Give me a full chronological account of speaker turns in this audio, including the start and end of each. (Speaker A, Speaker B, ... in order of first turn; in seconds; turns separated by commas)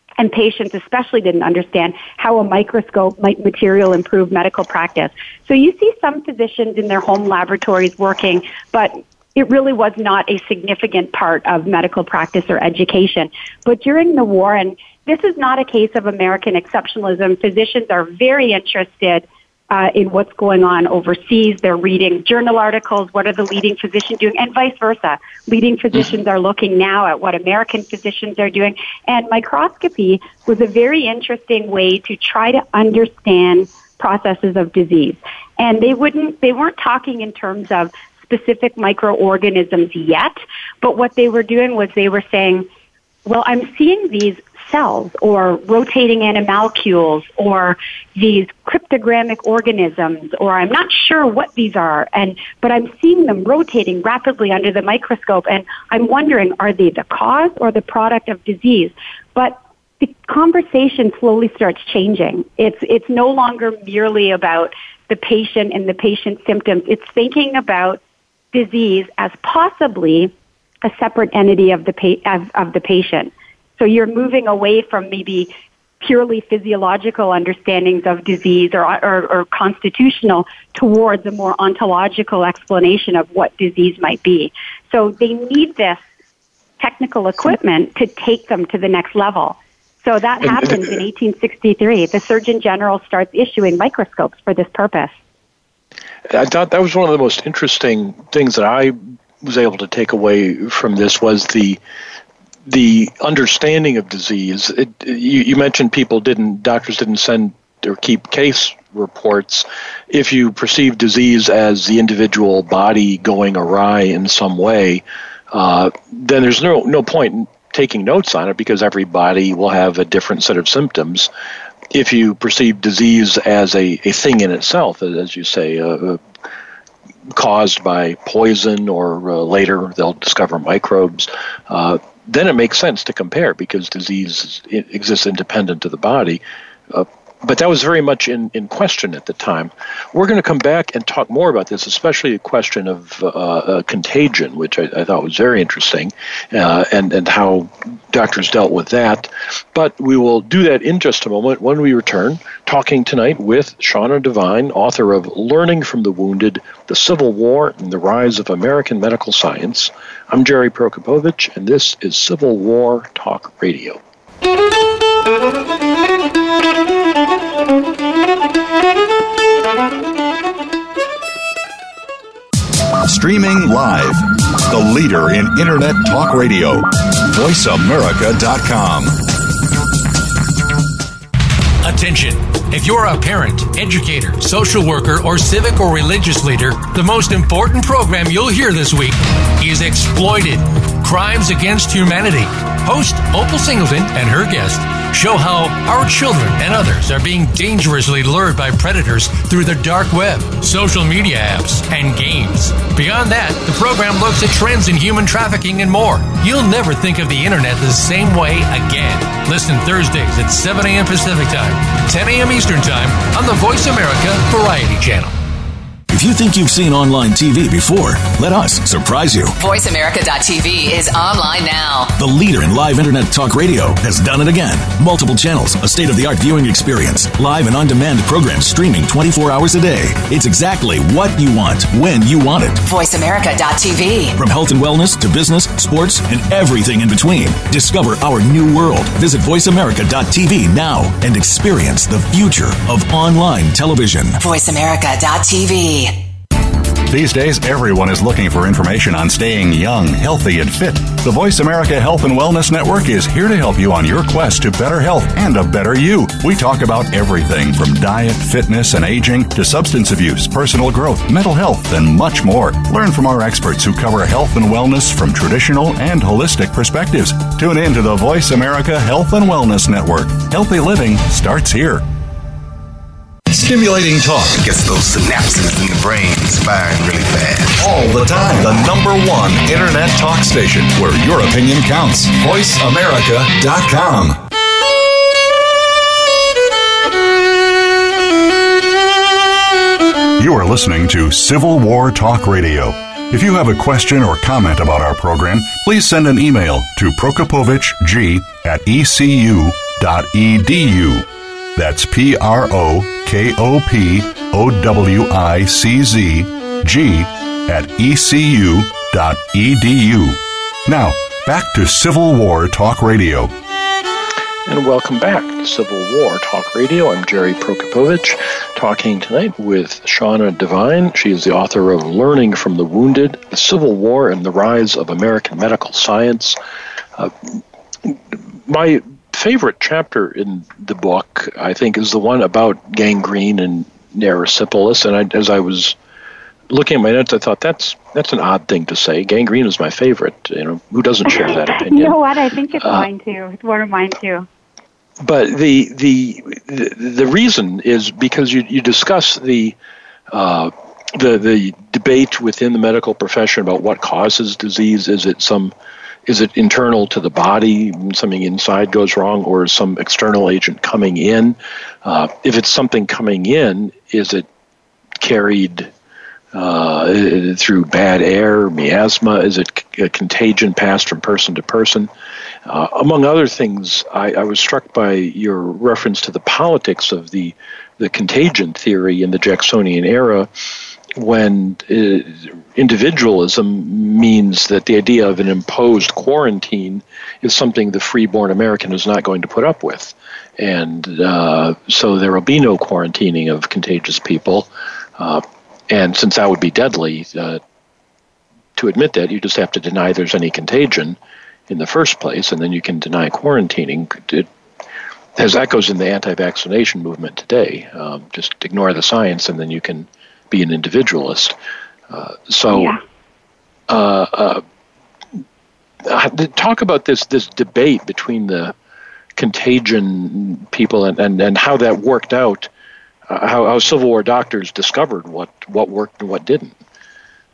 Speaker A: 0.2-42.6, Speaker A: 43.2-68.0, Speaker A: 68.5-70.3, Speaker A: 70.8-86.0, Speaker A: 86.8-95.1, Speaker B: 96.3-101.8, Speaker B: 102.7-121.3, Speaker B: 121.9-126.2, Speaker B: 127.3-164.0, Speaker C: 173.1-179.2, Speaker D: 181.8-215.3, Speaker E: 216.1-219.5, Speaker F: 219.6-222.1, Speaker E: 222.2-232.8, Speaker F: 232.8-234.3, Speaker E: 234.3-244.4, Speaker F: 244.4-246.2, Speaker C: 247.1-272.1, Speaker C: 273.5-274.6, Speaker G: 274.5-277.8, Speaker C: 277.8-284.4, Speaker C: 290.4-313.5, Speaker B: 314.6-326.6, Speaker B: 327.2-335.9, Speaker B: 336.7-342.2, Speaker A: 341.3-344.5, Speaker B: 345.2-349.8, Speaker B: 350.3-355.7, Speaker B: 356.2-364.4, Speaker B: 365.2-365.9, Speaker B: 366.5-372.1, Speaker B: 372.6-380.5, Speaker B: 381.1-397.6, Speaker B: 398.8-401.2, Speaker B: 401.7-404.5, Speaker B: 405.4-411.5, Speaker B: 412.1-412.9, Speaker A: 412.7-413.0, Speaker B: 413.9-414.6, Speaker B: 416.0-418.7, Speaker B: 419.4-422.7, Speaker B: 423.3-426.7